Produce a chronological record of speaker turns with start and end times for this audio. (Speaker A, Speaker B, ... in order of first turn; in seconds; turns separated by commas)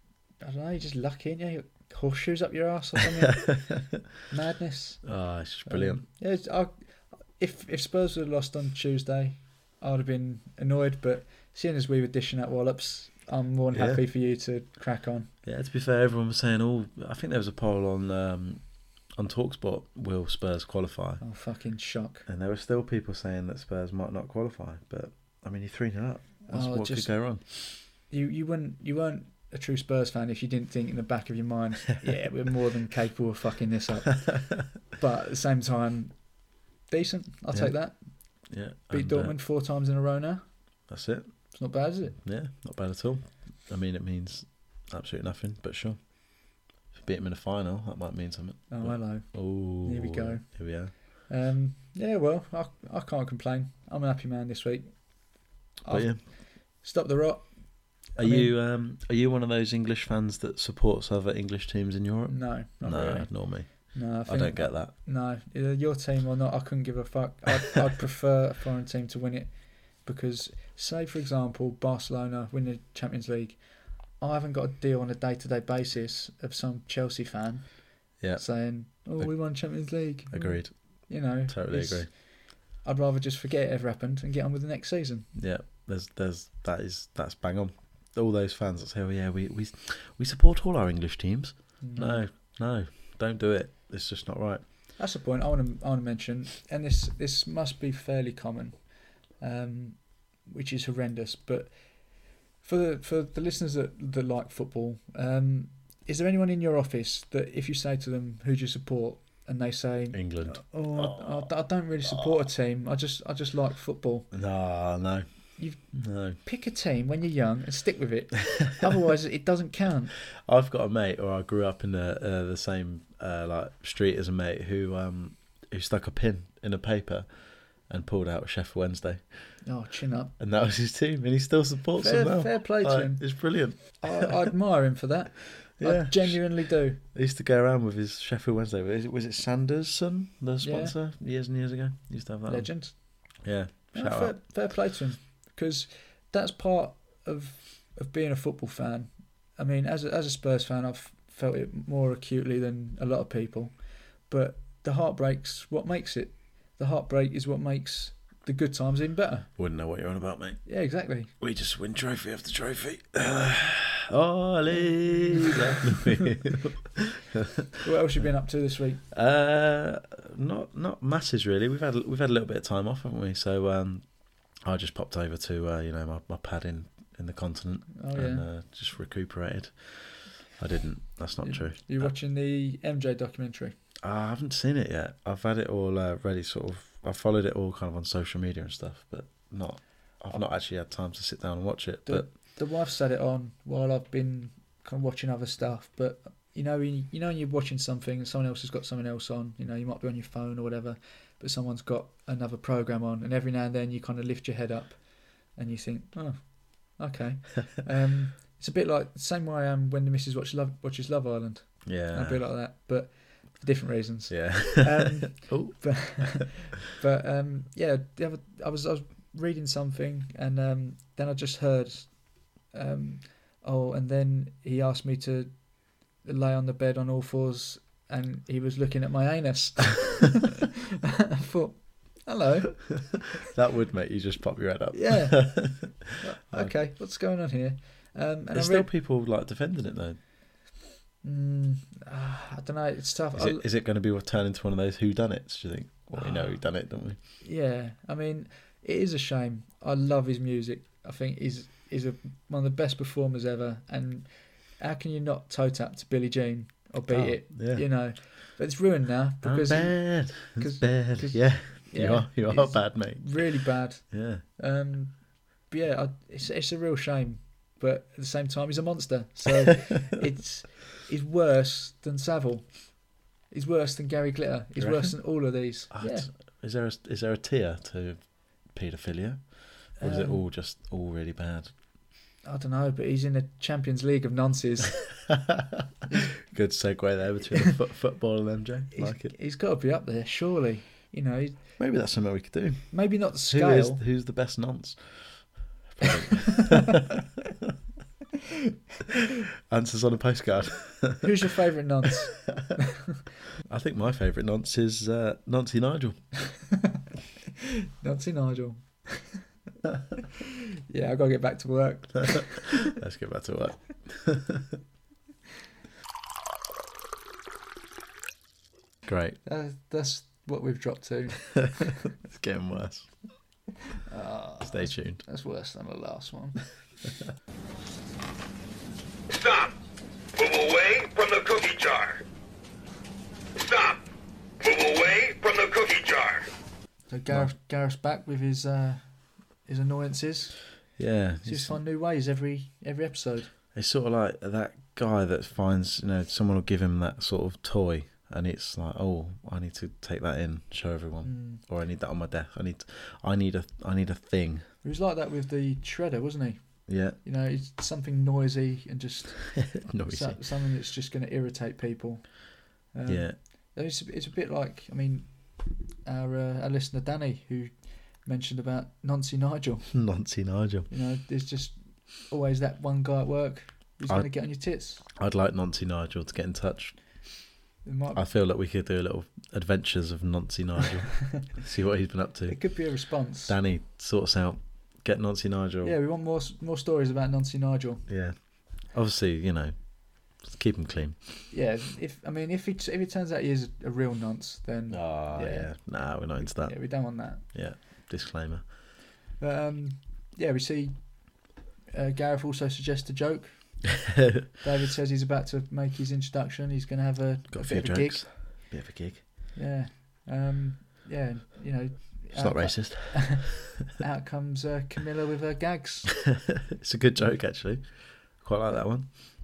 Speaker A: 0.4-15.3, Speaker B: 3.4-3.9, Speaker B: 5.0-6.0, Speaker B: 13.7-14.0, Speaker B: 15.4-21.2, Speaker A: 21.2-22.3, Speaker B: 22.3-27.4, Speaker A: 26.5-40.6, Speaker B: 37.5-39.4, Speaker B: 40.9-41.6, Speaker A: 41.5-42.2, Speaker B: 42.1-51.0, Speaker A: 48.7-58.5, Speaker B: 55.9-56.2, Speaker B: 58.1-64.9, Speaker A: 62.3-85.3, Speaker B: 78.2-82.1, Speaker B: 85.3-94.6, Speaker A: 91.8-92.3, Speaker A: 95.0-114.3, Speaker B: 110.1-111.5, Speaker B: 114.3-115.3, Speaker A: 115.6-120.1, Speaker B: 115.9-116.4, Speaker B: 120.3-129.6, Speaker A: 129.6-130.3, Speaker B: 130.4-134.3, Speaker A: 132.0-137.0, Speaker B: 135.8-144.4, Speaker A: 140.6-141.0, Speaker A: 142.5-159.5, Speaker B: 159.6-160.7, Speaker A: 160.7-161.3, Speaker B: 161.4-167.5, Speaker A: 164.7-165.8, Speaker A: 167.8-169.0, Speaker B: 169.1-182.1, Speaker A: 178.0-178.5, Speaker A: 181.4-183.8, Speaker B: 184.0-192.3, Speaker A: 192.1-230.5, Speaker B: 211.8-212.4, Speaker B: 214.3-216.5, Speaker A: 231.4-233.2, Speaker B: 233.5-236.8, Speaker A: 234.9-238.9, Speaker B: 238.5-240.2, Speaker A: 241.2-243.6, Speaker B: 243.3-247.2, Speaker A: 246.1-276.3, Speaker B: 257.1-258.2, Speaker B: 259.4-264.4, Speaker B: 274.8-281.8, Speaker A: 280.0-280.4, Speaker A: 282.4-285.2, Speaker B: 286.5-289.4, Speaker A: 288.9-291.8, Speaker B: 291.8-297.0, Speaker A: 292.9-294.0, Speaker B: 299.7-301.3, Speaker A: 301.2-302.7, Speaker B: 303.7-306.4, Speaker A: 308.0-309.4, Speaker A: 310.9-312.8, Speaker B: 312.4-314.7, Speaker B: 319.1-319.4, Speaker A: 319.4-321.9, Speaker B: 322.2-323.2, Speaker A: 324.1-326.8, Speaker B: 324.6-325.2, Speaker C: 329.3-329.7, Speaker C: 330.4-332.2, Speaker C: 333.6-334.0, Speaker C: 334.6-336.5, Speaker A: 337.1-343.5, Speaker B: 341.0-341.8, Speaker B: 343.7-354.7, Speaker A: 351.2-351.6, Speaker A: 354.8-370.0, Speaker B: 356.9-357.2, Speaker B: 359.6-360.4, Speaker B: 363.1-363.4, Speaker B: 369.9-370.9, Speaker A: 370.9-375.0, Speaker B: 374.1-377.0, Speaker A: 377.8-378.2, Speaker B: 378.1-386.0, Speaker A: 382.5-383.6, Speaker A: 385.8-388.1, Speaker B: 388.1-391.4, Speaker A: 391.5-397.4, Speaker B: 394.9-398.7, Speaker A: 399.4-408.7, Speaker B: 404.2-404.5, Speaker B: 407.5-409.3, Speaker A: 409.6-416.2, Speaker B: 412.3-413.5, Speaker B: 416.3-419.1